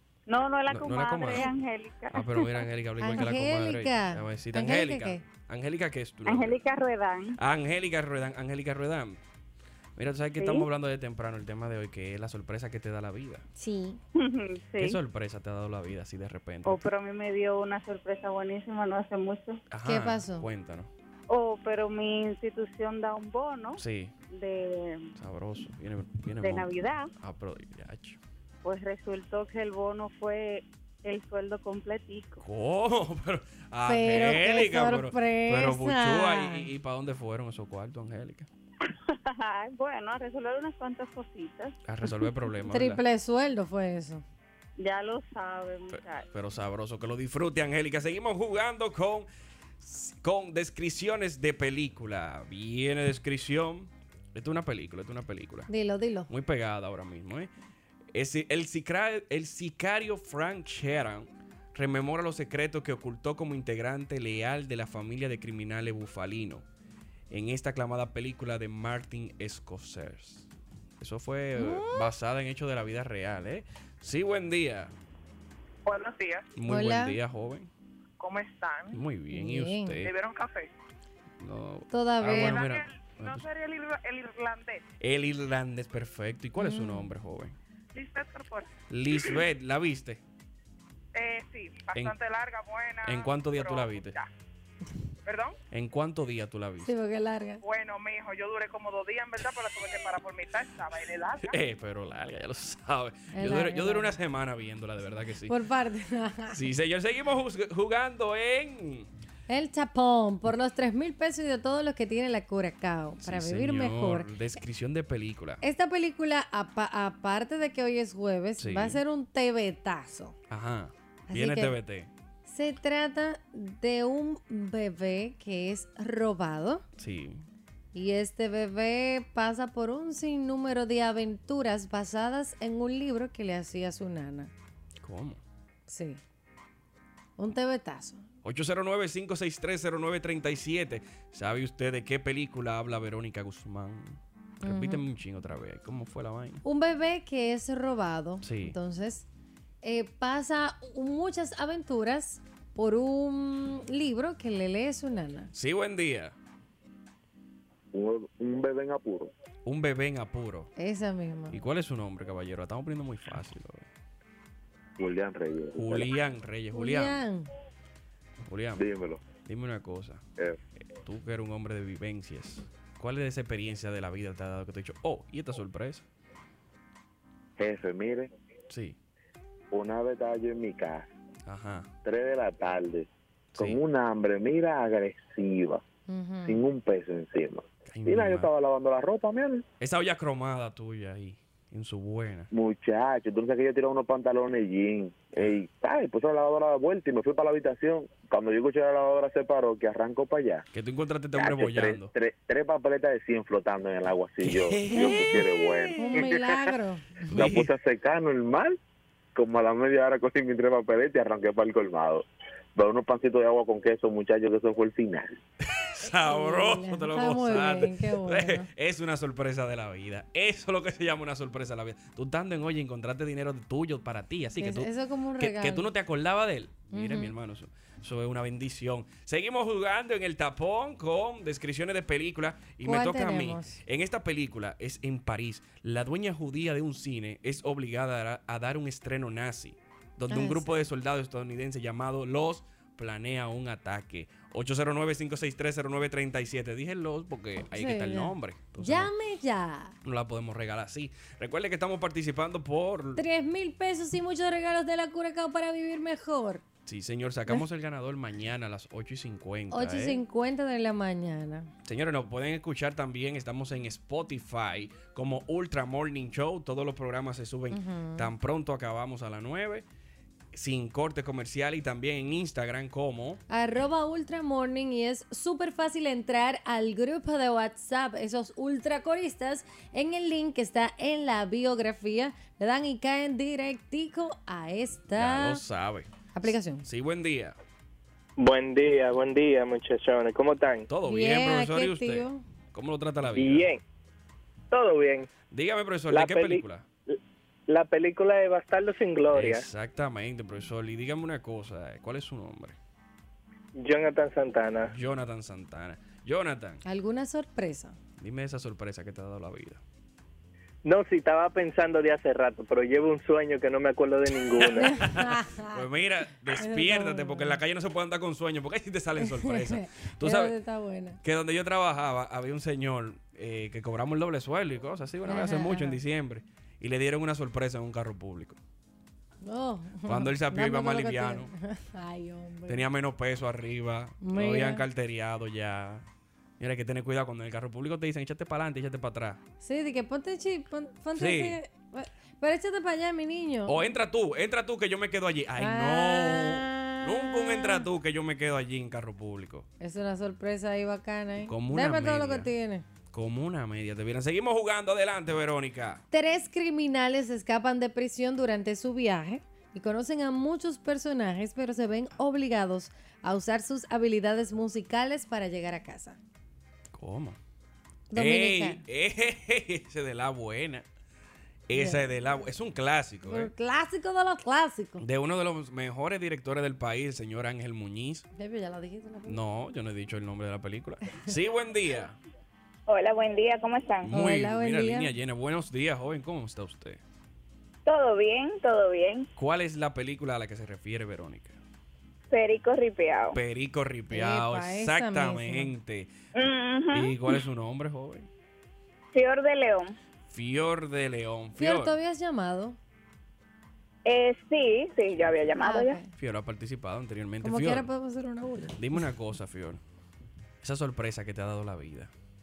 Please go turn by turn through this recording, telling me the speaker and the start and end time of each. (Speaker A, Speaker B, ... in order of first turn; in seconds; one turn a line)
Speaker A: 0.3-2.6
Speaker B: 0.7-1.5
Speaker B: 2.1-6.6
Speaker C: 3.0-5.2
Speaker A: 6.3-7.4
Speaker B: 7.4-9.2
Speaker B: 10.0-13.5
Speaker A: 10.4-10.7
Speaker C: 13.6-14.0
Speaker A: 14.2-15.0
Speaker B: 14.8-16.9
Speaker A: 16.6-19.6
Speaker B: 19.7-20.9
Speaker C: 19.8-20.5
Speaker A: 21.3-25.1
Speaker B: 23.8-24.1
Speaker B: 25.1-28.2
Speaker A: 26.4-27.1
Speaker A: 28.6-32.5
Speaker B: 32.4-38.5
Speaker C: 33.9-36.7
Speaker A: 39.1-41.8
Speaker B: 41.8-43.0
Speaker C: 42.7-44.2
Speaker A: 44.8-46.3
Speaker B: 45.9-49.3
Speaker B: 49.8-55.7
Speaker C: 55.7-56.3
Speaker B: 56.3-57.5
Speaker B: 58.1-66.7
Speaker B: 67.3-74.9
Speaker C: 71.6-72.1
Speaker D: 75.8-76.5
Speaker B: 76.6-77.7
Speaker C: 76.7-77.2
Speaker D: 78.2-79.0
Speaker B: 78.9-80.1
Speaker C: 79.3-80.0
Speaker D: 80.0-80.7
Speaker B: 81.4-83.5
Speaker C: 81.9-82.6
Speaker D: 82.3-84.8
Speaker B: 85.0-87.6
Speaker C: 86.6-87.1
Speaker D: 87.9-88.7
Speaker B: 88.9-90.2
Speaker D: 91.2-94.3
Speaker B: 93.0-94.2
Speaker D: 95.2-95.5
Speaker B: 95.7-96.9
Speaker C: 96.8-97.6
Speaker D: 97.6-101.5
Speaker B: 101.4-105.5
Speaker C: 103.3-104.1
Speaker C: 105.5-106.6
Speaker B: 106.5-109.1
Speaker C: 109.5-114.3
Speaker B: 113.2-115.6
Speaker C: 115.6-120.4
Speaker B: 118.6-119.0
Speaker B: 120.5-122.1
Speaker C: 121.3-121.8
Speaker C: 122.5-126.8
Speaker B: 127.0-127.5
Speaker C: 127.9-134.5
Speaker B: 135.0-135.4
Speaker C: 135.9-136.2
Speaker C: 137.4-138.2
Speaker B: 138.4-146.6
Speaker C: 144.6-145.0
Speaker C: 146.7-149.3
Speaker B: 148.4-148.8
Speaker C: 149.8-155.5
Speaker B: 155.5-156.3
Speaker E: 157.9-159.3
Speaker B: 159.7-160.7
Speaker C: 160.8-161.6
Speaker B: 161.5-163.9
Speaker E: 165.0-166.1
Speaker B: 165.8-167.2
Speaker C: 166.7-167.5
Speaker B: 168.4-168.8
Speaker E: 168.8-169.3
Speaker B: 169.4-170.2
Speaker B: 171.0-176.1
Speaker E: 177.6-178.3
Speaker B: 178.7-179.0
Speaker E: 179.7-181.1
Speaker B: 181.5-181.9
Speaker E: 182.0-185.8
Speaker C: 186.1-186.6
Speaker E: 186.4-189.7
Speaker B: 187.9-188.5
Speaker B: 189.8-192.5
Speaker E: 192.5-200.7
Speaker B: 200.7-202.1
Speaker E: 201.3-206.6
Speaker B: 204.4-205.7
Speaker C: 206.0-207.3
Speaker B: 207.3-207.7
Speaker E: 207.3-208.8
Speaker E: 209.3-215.3
Speaker B: 215.8-249.1
Speaker C: 216.2-218.7
Speaker C: 224.6-225.9
Speaker C: 226.9-227.3
Speaker C: 232.8-233.8
Speaker C: 240.3-240.8
Speaker C: 247.7-250.0
Speaker B: 250.0-253.2
Speaker C: 253.2-256.6
Speaker B: 256.9-260.2
Speaker C: 259.7-261.7
Speaker B: 261.9-269.9
Speaker C: 267.7-268.3
Speaker B: 270.5-273.4
Speaker C: 273.5-285.6
Speaker B: 285.1-287.6
Speaker C: 286.3-286.9
Speaker F: 288.4-290.9
Speaker B: 290.9-293.7
Speaker C: 291.1-292.4
Speaker F: 293.4-293.8
Speaker F: 294.7-295.3
Speaker B: 295.5-296.9
Speaker F: 296.1-297.2
Speaker F: 297.7-299.6
Speaker B: 299.3-302.8
Speaker F: 303.8-304.9
Speaker B: 304.9-306.8
Speaker C: 306.8-308.0
Speaker B: 308.2-309.8
Speaker F: 310.9-314.9
Speaker B: 314.6-320.6
Speaker C: 314.8-315.8
Speaker C: 316.6-317.6
Speaker C: 319.2-321.2
Speaker B: 321.2-328.6
Speaker C: 325.3-326.0
Speaker C: 329.4-332.8
Speaker B: 330.1-331.5
Speaker B: 332.7-336.1
Speaker C: 334.2-334.9
Speaker B: 336.6-339.4
Speaker C: 339.6-343.9
Speaker B: 341.1-341.6
Speaker B: 343.7-349.7
Speaker C: 345.6-347.9
Speaker C: 349.8-352.9
Speaker B: 351.5-352.5
Speaker B: 353.1-356.0
Speaker C: 356.1-366.2
Speaker B: 366.9-367.4
Speaker C: 368.1-368.8
Speaker B: 368.1-370.9
Speaker B: 371.7-373.5
Speaker C: 371.7-372.3
Speaker C: 373.2-375.1
Speaker B: 375.0-378.3
Speaker C: 378.4-379.4
Speaker B: 379.3-382.2
Speaker G: 382.9-384.1
Speaker B: 384.0-387.0
Speaker C: 384.1-385.1
Speaker G: 387.9-389.3
Speaker B: 389.4-391.6
Speaker G: 392.3-393.4
Speaker B: 393.3-396.1
Speaker C: 394.1-395.7
Speaker G: 396.4-397.4
Speaker B: 396.9-398.3
Speaker G: 399.1-399.9
Speaker B: 400.3-402.0
Speaker C: 401.6-402.8
Speaker G: 404.1-406.0
Speaker C: 405.6-406.1
Speaker B: 406.2-407.9
Speaker C: 407.4-408.8
Speaker B: 408.8-409.8
Speaker B: 410.6-412.1